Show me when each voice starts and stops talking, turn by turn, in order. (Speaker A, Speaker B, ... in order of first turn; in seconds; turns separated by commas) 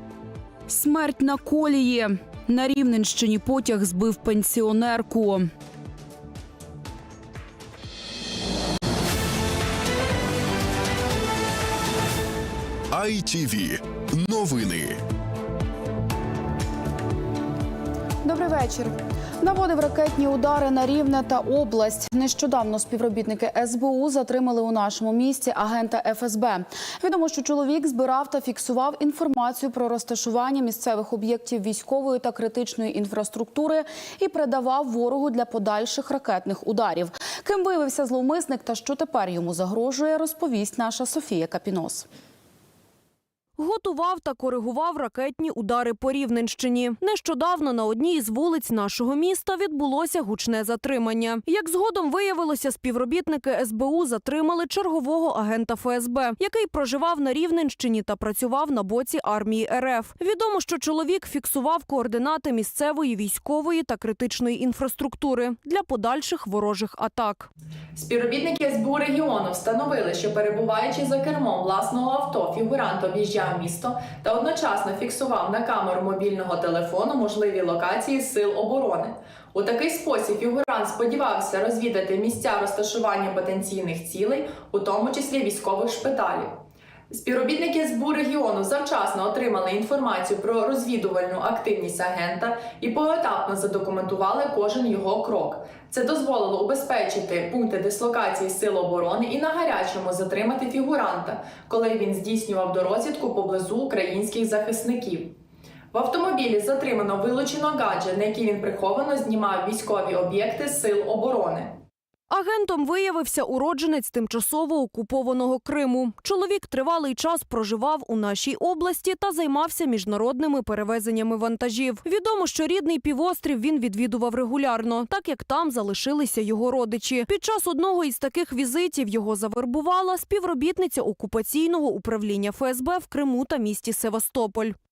Speaker A: 0.7-5.5, Speaker B: 13.0-14.9, Speaker A: 18.2-42.1, Speaker C: 43.6-67.5, Speaker D: 68.0-86.6, Speaker D: 87.1-105.3, Speaker D: 105.9-111.8, Speaker C: 112.3-134.8